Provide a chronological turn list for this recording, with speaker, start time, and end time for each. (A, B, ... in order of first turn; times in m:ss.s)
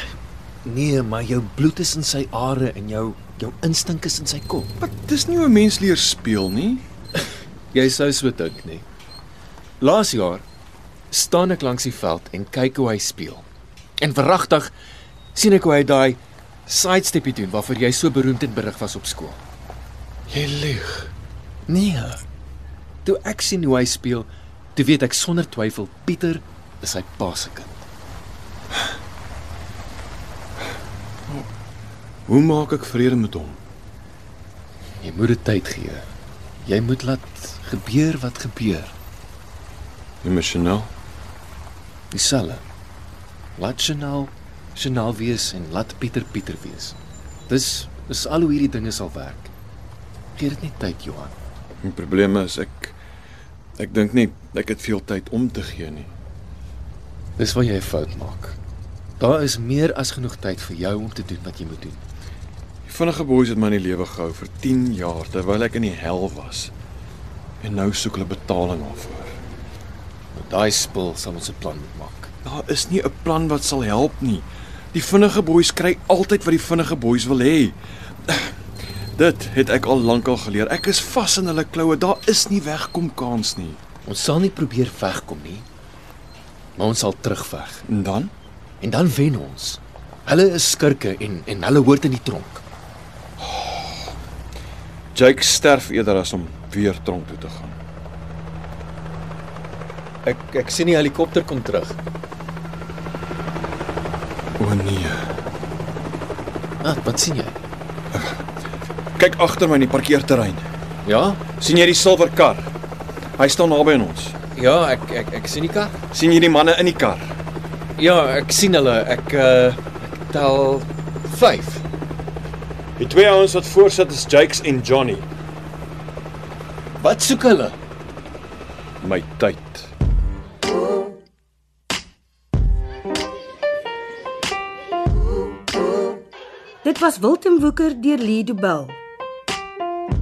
0:00.6-0:04.7 A
0:04.8-0:06.8 B
0:07.7-0:08.8 A
0:09.8-0:10.4 A
0:11.1-0:13.5 A
0:14.0-0:14.7 A
0:15.4-0:19.4 A
0:20.3-0:21.1 B
0:21.7-0:22.2 A
0:23.0-0:27.9 A
0:32.3-0:33.6 B
0:35.0-0:36.0 A
0:36.6-0:38.9 A
0:40.2-0:40.9 B
0:42.1-0:42.6 A
0:43.6-0:47.0 A
0:47.5-0:49.5 A
0:50.4-0:51.4 A
0:51.8-0:53.0 B
0:53.8-0:56.1 B
0:57.4-0:58.6 A
0:59.2-1:02.0 A
1:02.9-1:06.7 B
1:07.6-1:09.3 B
1:10.3-1:12.3 A
1:12.4-1:18.6 B
1:19.2-1:23.8 B
1:24.0-1:25.7 A
1:26.8-1:27.8 A
1:27.9-1:28.3 B
1:28.8-1:32.6 A
1:33.4-1:34.1 B
1:35.1-1:37.8 B
1:40.2-1:42.0 A
1:44.6-1:45.3 B
1:46.8-1:47.6 A
1:49.2-1:50.7 B
1:51.0-1:51.4 A
1:51.5-1:52.7 B
1:53.4-1:54.4 B
1:54.6-1:56.0 A
1:56.1-1:57.4 B
1:58.0-2:01.8 A
2:03.0-2:05.3 B
2:07.0-2:07.8 A
2:09.0-2:09.9 B
2:16.8-2:19.0 C